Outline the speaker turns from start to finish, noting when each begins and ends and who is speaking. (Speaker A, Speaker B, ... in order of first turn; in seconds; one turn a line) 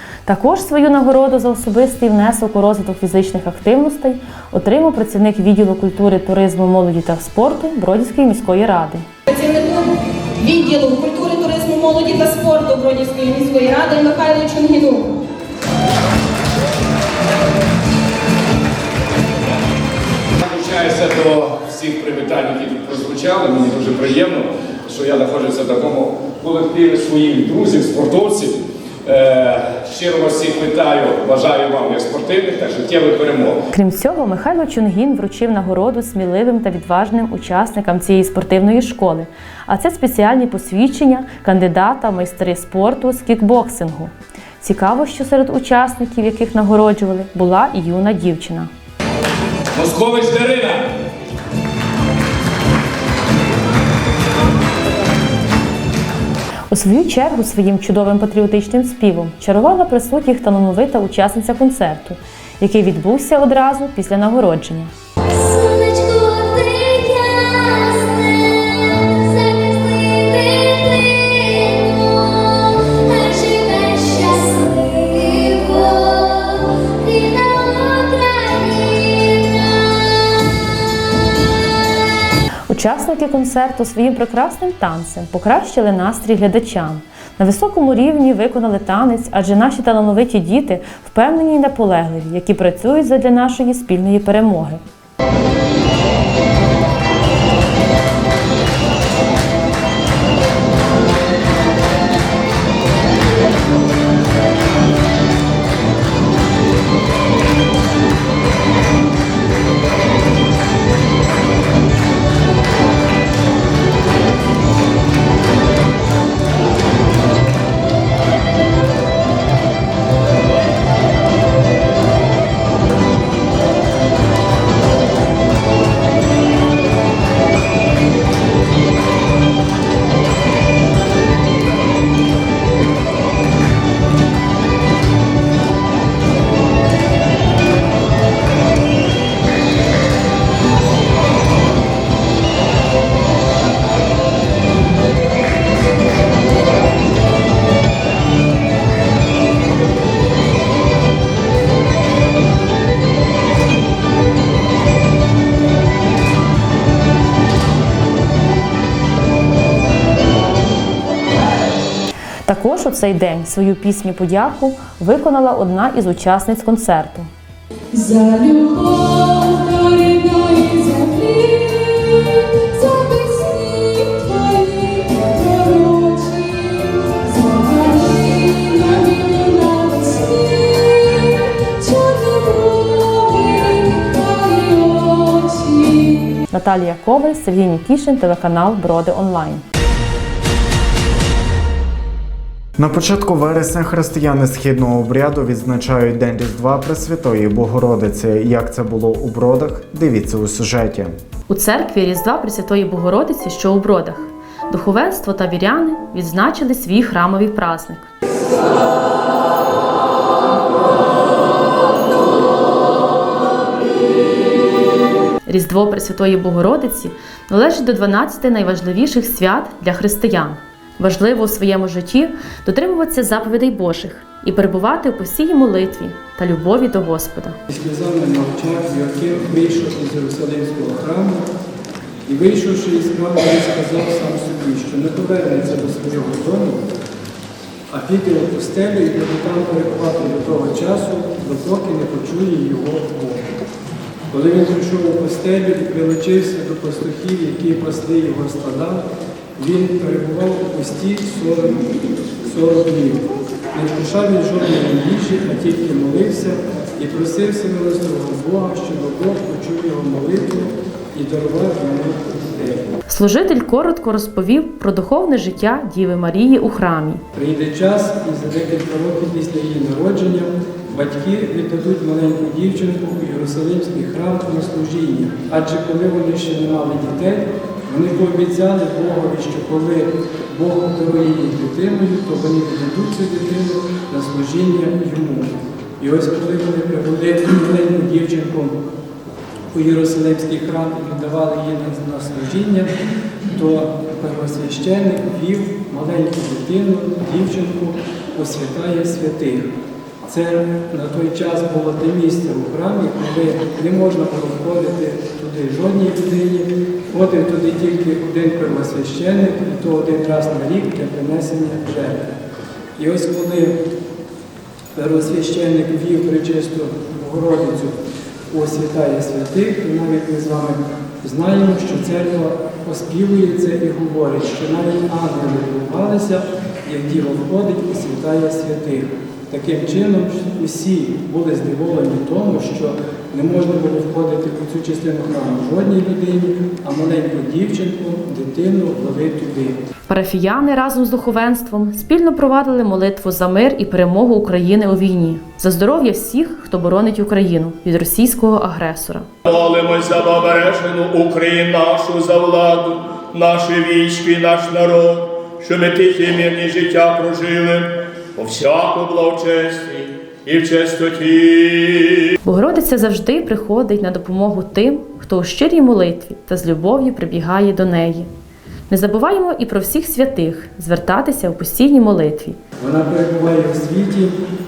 Speaker A: 0.3-9.1
Speaker B: 9.3-15.1
Speaker C: 20.4-33.6
Speaker A: 33.7-48.7
Speaker C: 49.8-50.9
Speaker A: 56.7-64.9
Speaker A: 82.7-94.8
Speaker A: 162.4-167.3
Speaker D: 167.9-186.4
Speaker A: 186.5-189.6
Speaker E: 192.8-201.1
Speaker A: 201.5-208.1
Speaker A: 215.5-227.6
Speaker F: 227.7-231.5
Speaker F: 232.3-236.9
Speaker F: 237.9-243.5
Speaker F: 244.3-251.9
Speaker F: 252.4-263.0
Speaker A: 263.1-267.2
Speaker F: 267.3-288.8
Speaker F: 289.7-292.9
Speaker F: 293.5-299.7
Speaker F: 300.2-312.3
Speaker F: 313.0-313.8
Speaker F: 314.9-339.8
Speaker A: 340.1-349.3
Speaker C: 349.5-350.8
Speaker G: 350.8-355.0
Speaker C: 351.4-351.9
Speaker C: 352.7-353.1
Speaker G: 355.6-357.7
Speaker C: 355.8-356.3
Speaker G: 358.4-359.9
Speaker G: 360.5-361.6
Speaker A: 362.4-368.3
Speaker A: 368.9-372.6
Speaker F: 372.8-374.4